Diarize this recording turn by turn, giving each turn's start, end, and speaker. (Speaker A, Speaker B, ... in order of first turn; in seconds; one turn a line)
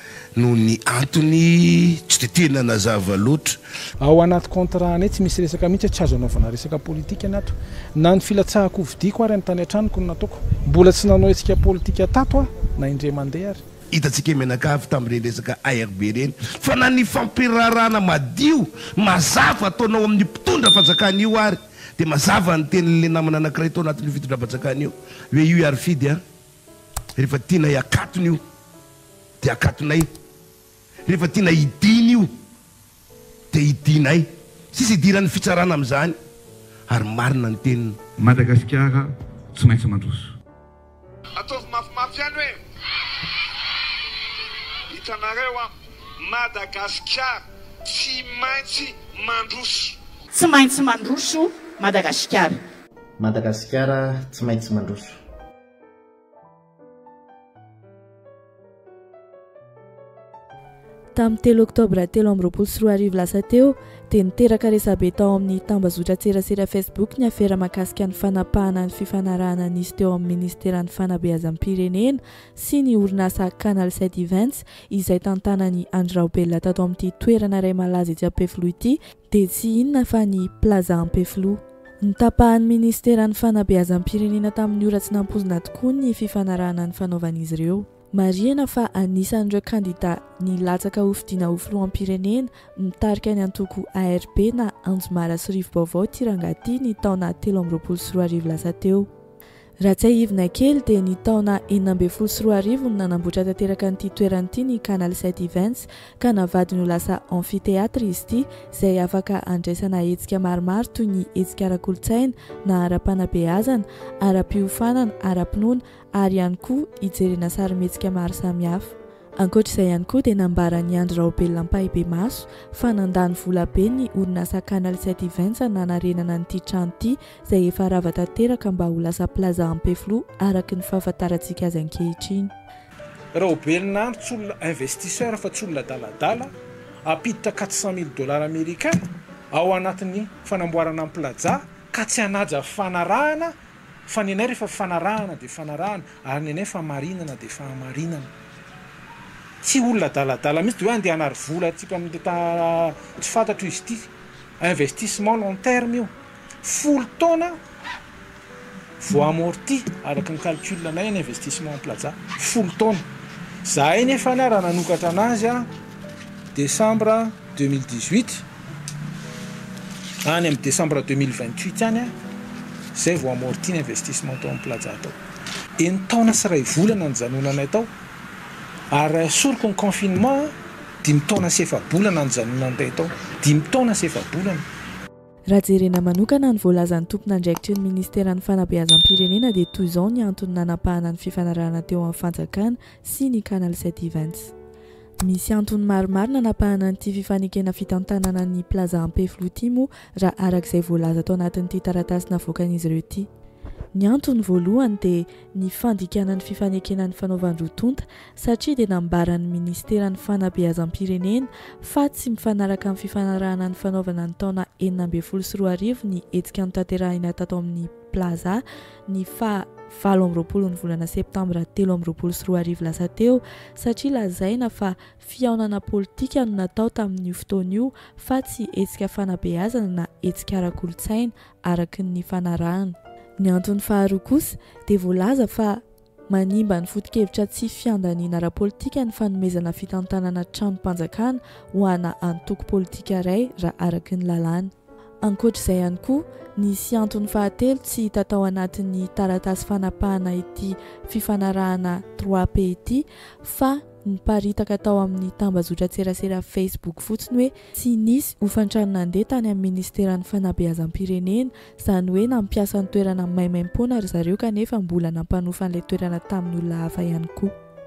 Speaker A: 0.4-3.6
Speaker B: 4.0-13.6
Speaker A: 13.9-26.2
Speaker A: 27.2-28.4
Speaker A: 29.4-30.1
Speaker A: 31.1-32.3
Speaker A: 33.5-36.2
Speaker A: 36.9-38.0
Speaker C: 38.2-40.3
Speaker D: 41.4-42.6
Speaker D: 44.9-50.0
Speaker E: 50.3-52.6
Speaker F: 53.2-55.1
Speaker G: 61.1-99.1
Speaker G: 99.8-132.5
Speaker B: 133.3-136.5
Speaker B: 137.1-139.0
Speaker B: 139.5-143.5
Speaker B: 144.1-148.3
Speaker B: 149.6-154.1
Speaker B: 154.6-157.6
Speaker B: 159.0-163.1
Speaker B: 163.6-165.7
Speaker B: 166.5-168.4
Speaker B: 170.2-172.1
Speaker B: 172.9-175.2
Speaker B: 175.8-177.9
Speaker B: 178.9-184.7
Speaker G: 185.5-194.5
Speaker G: 195.2-203.3
Speaker G: 203.9-267.6